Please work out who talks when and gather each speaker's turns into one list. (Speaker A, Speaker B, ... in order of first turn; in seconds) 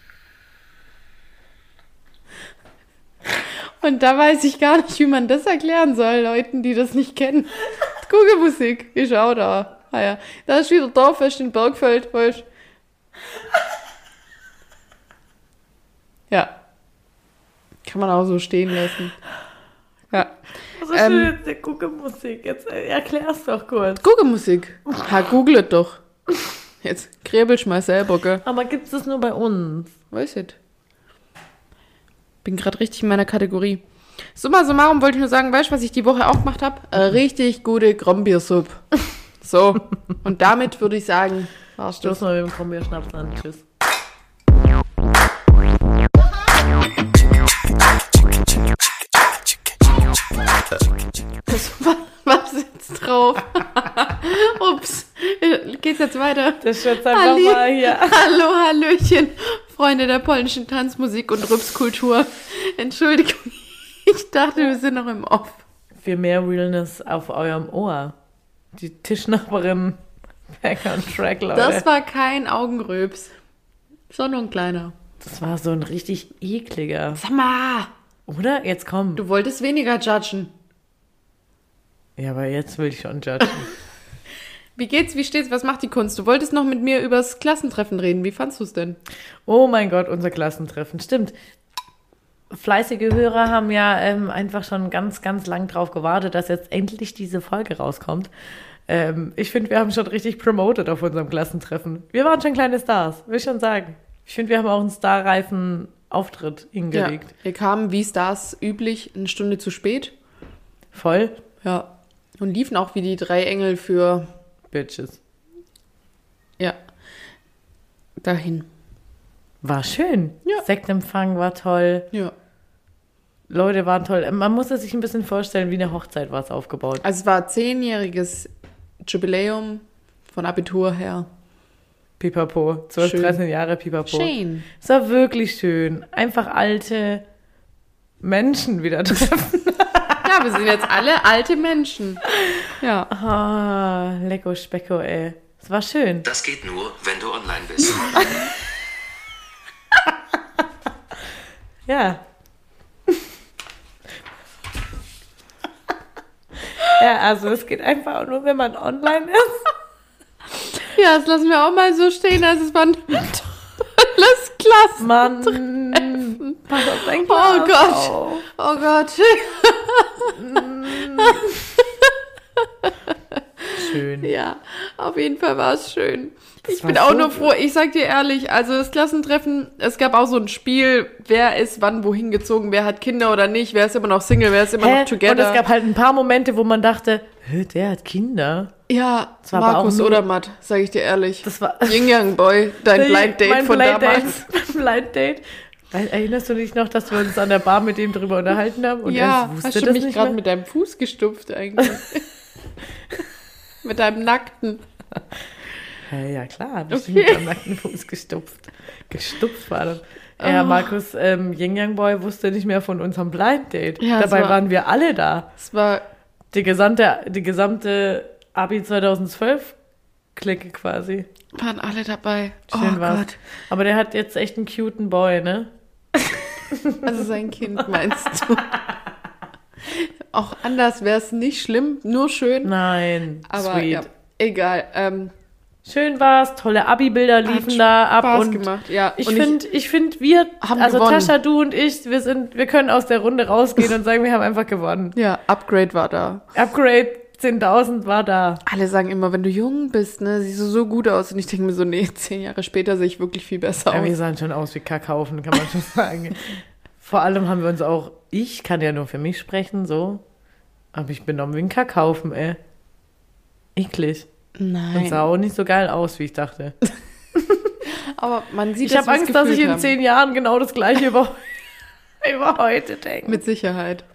Speaker A: 3.8-12.5, 17.9-19.2, 20.9-21.3, 24.0-26.0, 26.8-28.4, 30.1-30.6, 32.4-33.8, 34.4-38.9, 39.4-42.2, 51.5-65.6, 71.5-73.3, 74.1-74.9, 77.2-77.9, 79.2-80.5, 84.8-89.0, 106.9-110.2, 111.6-114.3, 118.2-118.7, 127.0-128.5, 129.0-131.3, 133.0-133.4, 134.1-134.7, 140.2-142.2, 142.8-143.1, 160.9-185.6, 188.9-194.4, 199.1-202.3, 203.8-204.8, 206.9-207.5, 210.4-210.9, 214.0-214.6, 215.6-216.1, 221.5-223.4, 227.0-228.8, 229.9-232.7, 233.5-235.3, 237.4-239.6, 240.6-241.3, 245.2-246.4, 248.7-254.1, 264.6-265.3, 267.9-269.9, 273.3-274.1
Speaker B: 20.8-24.0, 28.4-29.9, 42.0-43.6, 56.6-58.2, 66.0-68.2, 68.7-71.9, 75.2-77.2, 78.3-79.2, 82.2-83.7, 89.5-91.3, 92.5-98.3, 98.9-107.3, 110.9-111.4, 114.7-115.2, 119.6-122.1, 123.5-127.0, 132.2-137.2, 138.2-140.3, 142.3-146.3, 148.2-148.5, 151.9-152.2, 156.7-159.7, 165.0-168.4, 170.3-171.4, 173.7-174.3, 176.7-177.5, 184.8-188.7, 189.5-190.2, 191.4-192.2, 192.9-200.4, 206.1-215.5, 216.5-219.8, 220.3-221.3, 222.7-225.7, 226.7-227.0, 227.8-228.4, 232.6-234.1, 235.8-245.2, 246.5-248.6, 253.9-260.2, 260.9-262.6, 263.8-264.3, 264.9-266.8, 267.4-267.8, 268.8-271.7, 272.2-273.4
Speaker C: 146.3-148.3